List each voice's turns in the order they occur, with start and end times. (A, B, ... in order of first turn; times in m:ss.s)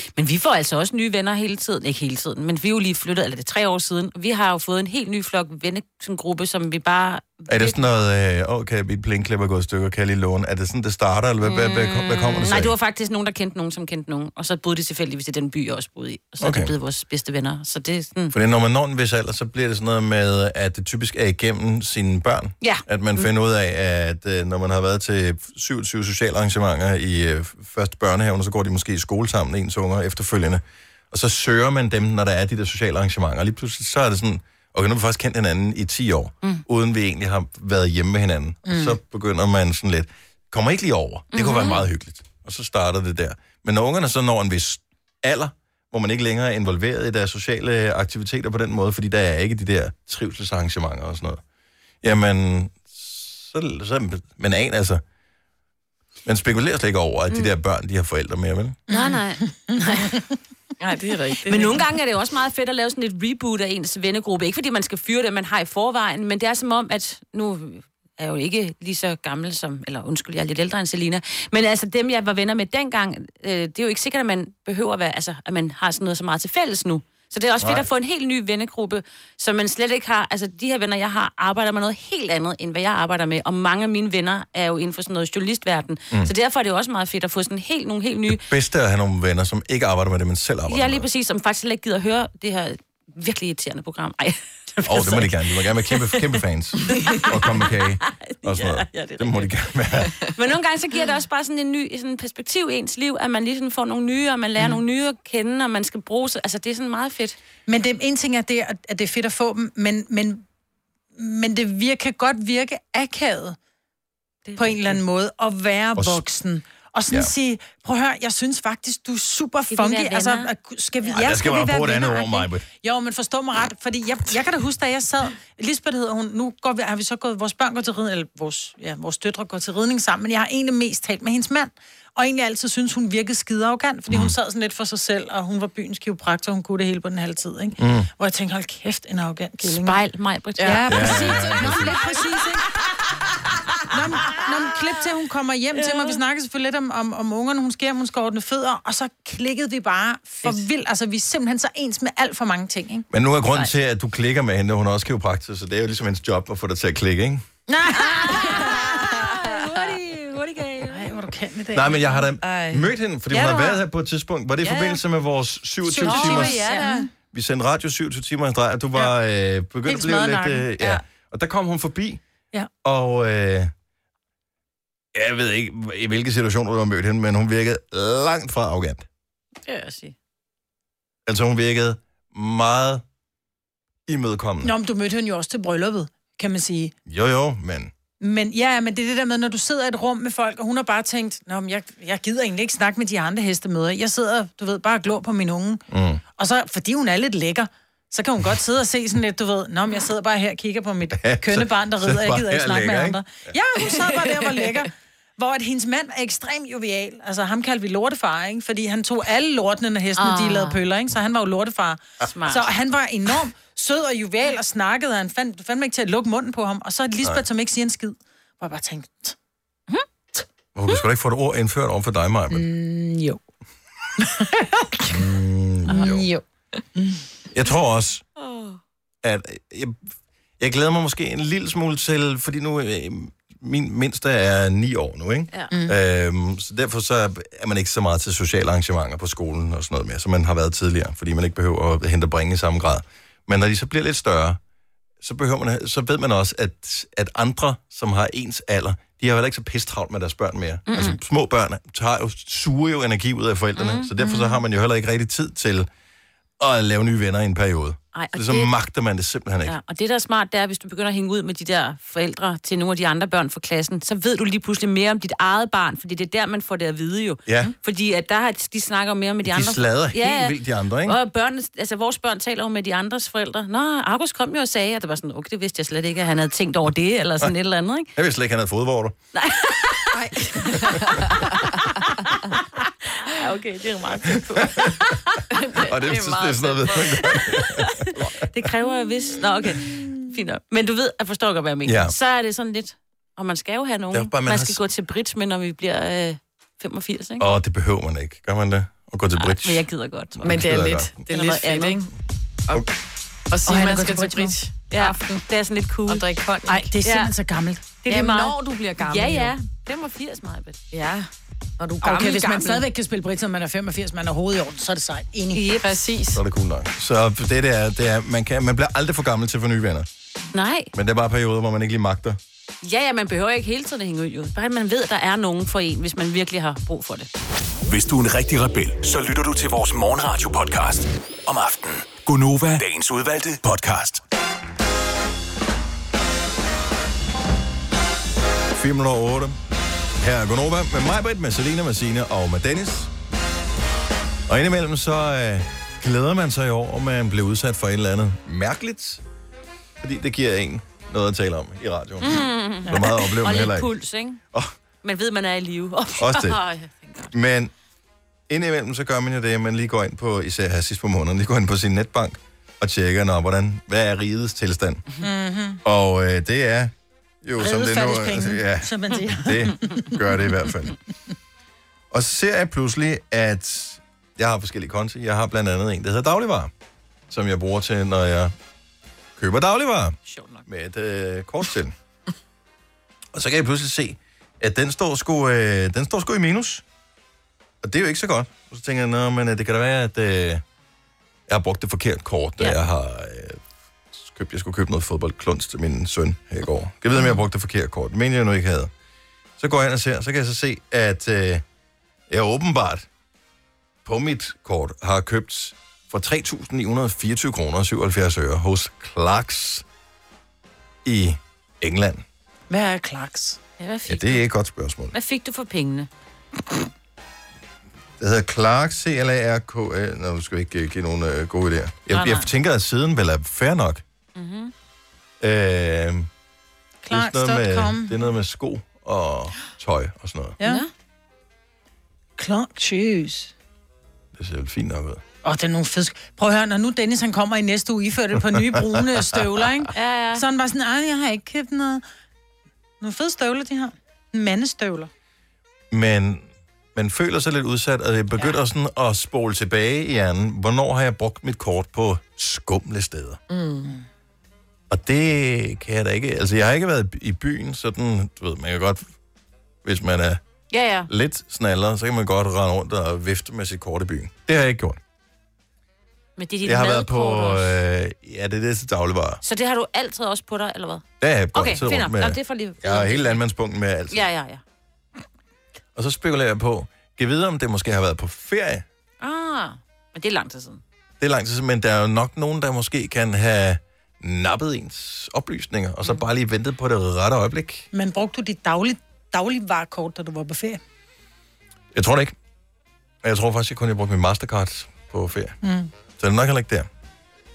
0:00.1-0:07.8 A
0:07.5-0:12.7 B
0:11.4-0:18.3 A
0:16.4-0:16.7 B
0:18.3-0:51.4 B
0:22.6-0:23.3 A
0:38.7-0:39.0 C
0:41.3-0:41.8 A
0:52.0-0:55.0 B
0:56.2-0:58.8 B
0:58.9-1:00.2 A
0:58.9-1:00.2 C
1:00.8-1:01.8 D
1:01.4-1:28.4 A
1:17.6-1:17.9 B
1:28.3-1:31.0 B
1:30.7-1:35.3 A
1:34.8-1:40.1 B
1:35.9-1:36.3 A
1:37.0-1:39.6 A
1:40.2-1:47.4 A
1:47.7-1:50.4 C
1:51.2-1:53.6 C
1:54.5-1:55.0 A
1:54.6-2:20.0 C
1:56.0-1:56.2 B
1:59.7-2:00.5 A
2:01.1-2:02.7 B
2:17.8-2:18.1 B
2:19.6-2:22.2 A
2:20.6-2:20.9 D
2:20.6-2:22.7 C
2:20.9-2:22.0 B
2:23.9-2:33.0 C
2:25.8-2:26.2 A
2:33.1-2:37.4 B
2:37.7-2:39.9 C
2:38.0-2:41.2 A
2:40.8-2:42.2 C
2:41.7-2:46.6 B
2:42.4-2:42.9 D
2:43.3-2:43.8 C
2:44.6-2:45.0 A
2:45.8-2:47.1 C
2:46.0-2:47.1 A
2:47.3-2:52.2 B
2:49.9-2:50.7 C
2:52.8-2:53.7 B
2:55.1-2:59.0 B
2:59.7-3:00.1 A
3:01.3-3:03.0 B
3:04.1-3:04.7 B
3:04.6-3:06.9 C
3:07.1-3:07.9 B
3:08.2-3:15.8 C
3:15.9-3:16.2 B
3:16.4-3:39.3 C
3:21.1-3:23.2 B
3:30.2-3:30.8 A
3:32.2-3:32.7 A
3:40.7-3:42.7 B
3:42.5-3:43.4 C
3:44.2-3:45.2 C
3:45.1-3:46.3 B
3:45.9-3:46.4 C
3:47.5-3:48.2 B
3:49.2-3:50.0 B
3:50.6-4:04.6 B
4:05.2-4:15.9 B
4:10.9-4:11.2 A
4:13.8-4:14.6 A
4:16.6-4:19.8 B
4:18.1-4:18.7 A
4:19.6-4:38.1 A
4:27.5-4:27.7 B
4:29.4-4:31.2 B
4:38.2-4:39.2 B
4:39.3-4:40.2 A
4:40.1-4:41.6 D
4:40.7-4:41.5 A
4:43.2-4:45.4 A
4:44.6-4:45.0 B
4:45.5-4:47.1 D
4:45.9-4:48.2 B
4:47.2-4:57.5 A
4:51.8-4:52.1 B
4:54.1-4:54.8 B
4:57.4-5:01.2 B
4:59.4-5:00.5 A
5:00.4-5:02.1 D
5:01.3-5:02.0 A
5:03.5-5:05.4 D
5:03.7-5:04.6 C
5:04.9-5:06.3 A
5:06.1-5:06.9 D
5:06.7-5:07.8 C
5:07.0-5:07.3 A
5:08.0-5:10.8 A
5:08.1-5:09.5 D
5:10.9-5:11.3 D
5:11.8-5:12.8 D
5:12.0-5:15.6 C
5:15.5-5:16.0 A
5:15.8-5:16.4 D
5:16.3-5:20.1 B
5:20.5-5:20.9 A
5:20.9-5:22.4 B
5:22.8-5:27.3 A
5:27.9-5:34.2 E
5:38.7-5:39.6 B
5:40.2-5:43.1 B
5:44.5-5:49.2 B
5:50.0-5:53.9 B
5:52.2-5:54.4 A
5:55.0-5:57.3 A
5:56.2-5:56.6 B
5:57.3-5:57.7 B
5:58.5-6:05.0 B
6:05.2-6:05.8 C
6:05.8-6:06.9 B
6:07.4-6:10.9 B
6:07.6-6:10.1 C
6:12.1-6:16.7 B
6:17.3-6:18.5 B
6:19.4-6:21.9 B
6:20.3-6:20.6 A
6:23.3-6:26.8 B
6:27.8-6:30.6 B
6:31.5-6:38.9 B
6:39.6-6:41.6 B
6:42.3-6:43.1 B
6:44.0-6:49.8 B
6:51.0-6:52.2 B
6:52.7-6:53.6 C
6:53.8-6:54.4 A
6:54.1-6:55.1 B
6:55.1-6:56.1 A
6:58.2-7:04.0 B
7:02.1-7:02.5 A
7:04.4-7:04.7 A
7:05.4-7:06.3 B
7:07.0-7:08.2 C
7:07.1-7:10.6 B
7:10.6-7:10.9 A
7:12.4-7:13.5 C
7:14.3-7:15.2 B
7:15.4-7:22.0 C
7:19.9-7:20.4 A
7:23.0-7:25.1 C
7:25.9-7:33.4 B
7:33.5-7:33.9 D
7:34.9-7:39.1 B
7:39.8-7:40.4 B
7:40.7-7:41.1 A
7:41.1-7:45.0 B
7:46.4-7:47.8 A
7:46.6-7:49.4 B
7:49.4-7:53.4 A
7:51.2-7:54.3 B
7:54.1-7:54.6 A
7:56.0-7:58.8 B
7:59.2-8:00.8 A
8:01.2-8:07.9 B
8:07.9-8:10.8 C
8:11.9-8:12.3 B
8:13.2-8:15.6 B
8:15.6-8:15.9 C
8:16.2-8:16.9 B